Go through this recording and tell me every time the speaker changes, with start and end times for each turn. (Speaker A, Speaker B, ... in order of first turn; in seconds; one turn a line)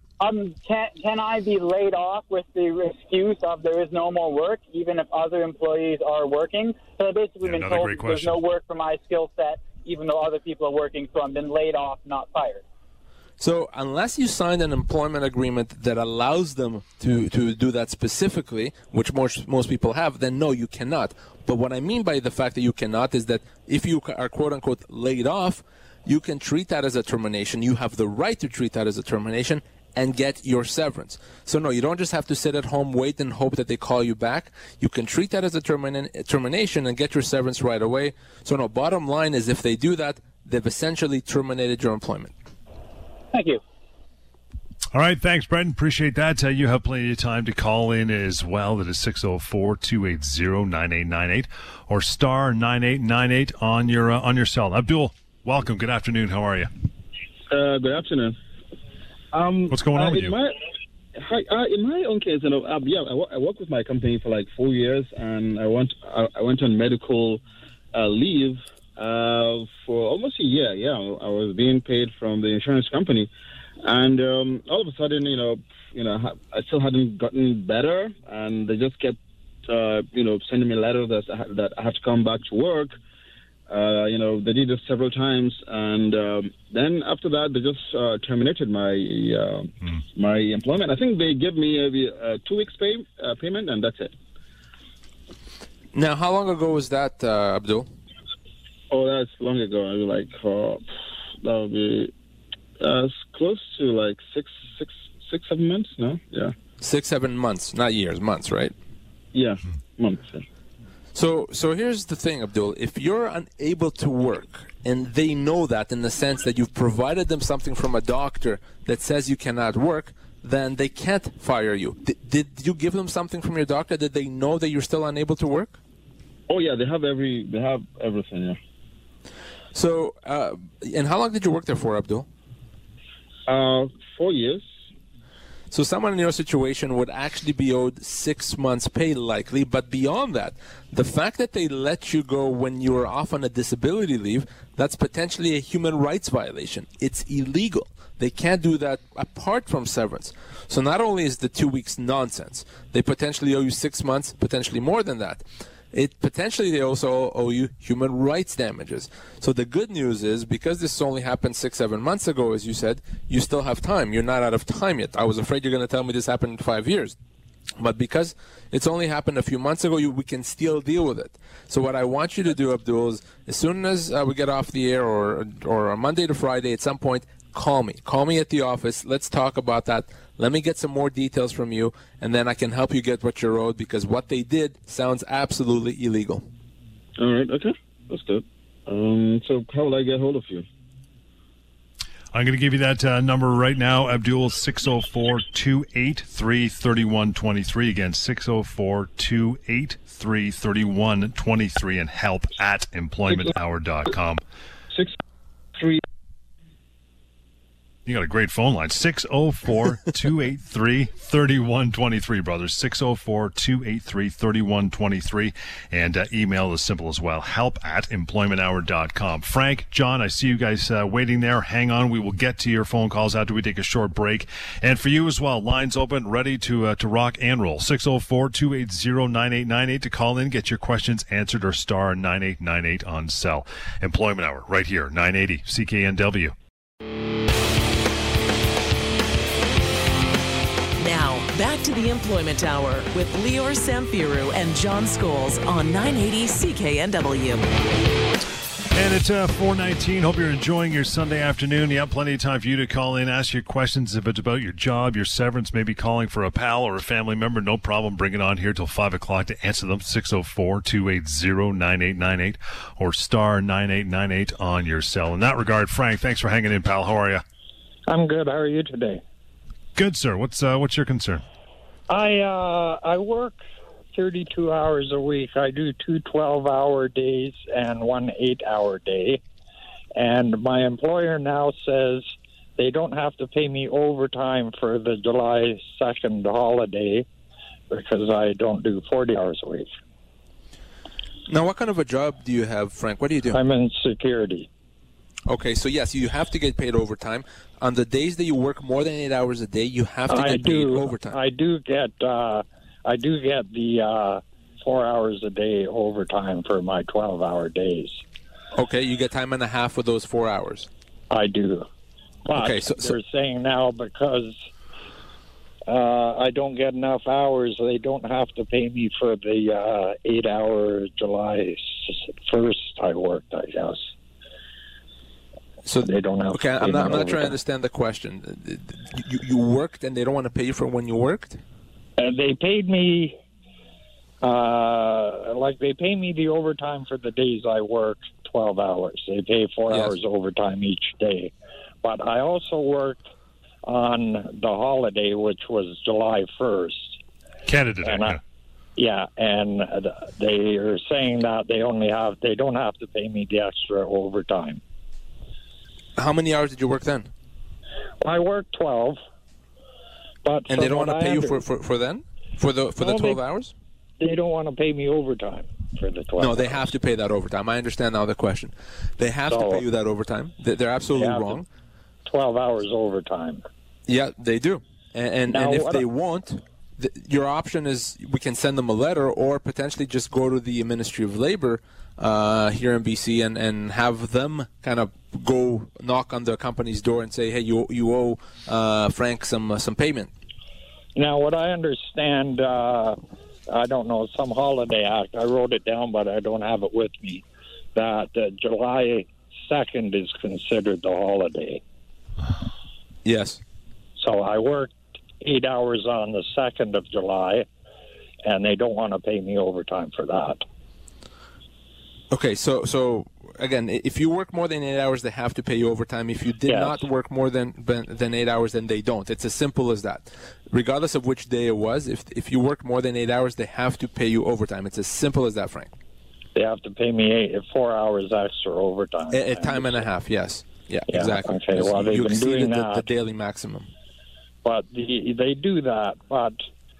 Speaker A: 0.2-12.6
Speaker B: 7.4-8.4
Speaker C: 13.4-42.3
Speaker A: 43.3-43.6
Speaker B: 44.9-56.7
Speaker D: 57.5-58.4
Speaker D: 59.3-60.6
Speaker B: 59.7-60.3
Speaker D: 61.1-67.4
Speaker D: 67.9-73.3
Speaker D: 73.8-83.0
Speaker D: 83.7-94.1
Speaker C: 96.0-97.9
Speaker D: 98.9-100.8
Speaker D: 101.4-102.1
Speaker D: 102.8-106.5
Speaker C: 106.8-108.7
Speaker D: 109.3-110.5
Speaker C: 111.1-125.8
Speaker D: 126.5-128.6
Speaker C: 129.7-132.3
Speaker D: 133.5-134.6
Speaker C: 135.7-167.2
Speaker C: 167.8-186.4
Speaker D: 187.2-190.6
Speaker B: 192.3-204.4
Speaker D: 205.8-206.0
Speaker B: 208.1-236.6
Speaker E: 241.0-247.6
Speaker B: 248.9-267.4
Speaker F: 268.1-269.2
Speaker B: 270.0-271.4
Speaker F: 272.1-273.6
Speaker F: 274.1-279.4
Speaker F: 280.1-287.2
Speaker F: 287.9-289.9
Speaker C: 291.5-293.6
Speaker F: 293.5-294.7
Speaker C: 295.5-301.4
Speaker F: 300.3-308.2
Speaker C: 308.7-310.9
Speaker F: 311.3-311.9
Speaker F: 312.4-314.6
Speaker C: 312.6-313.1
Speaker F: 315.9-324.1
Speaker C: 325.9-331.6
Speaker F: 326.0-327.6
Speaker F: 332.2-333.4
Speaker F: 334.4-341.5
Speaker C: 339.9-340.1
Speaker F: 342.0-343.2
Speaker F: 343.9-347.2
Speaker B: 347.6-348.4
Speaker F: 348.1-348.4
Speaker F: 349.0-354.8
Speaker C: 356.2-357.3
Speaker F: 358.2-359.2
Speaker F: 360.4-361.6
Speaker C: 360.7-363.7
Speaker F: 363.0-363.4
Speaker F: 364.2-366.9
Speaker C: 366.4-371.6
Speaker F: 369.5-369.8
Speaker F: 371.1-371.6
Speaker F: 372.2-373.6
Speaker C: 374.1-390.3
Speaker F: 375.5-376.1
Speaker F: 391.1-393.2
Speaker F: 393.7-397.4
Speaker F: 397.9-401.8
Speaker C: 403.2-403.6
Speaker F: 404.2-407.6
Speaker F: 408.4-410.6
Speaker C: 412.3-425.9
Speaker F: 416.7-417.0
Speaker F: 426.6-430.1
Speaker C: 429.3-433.9
Speaker F: 431.1-433.1
Speaker F: 434.6-436.6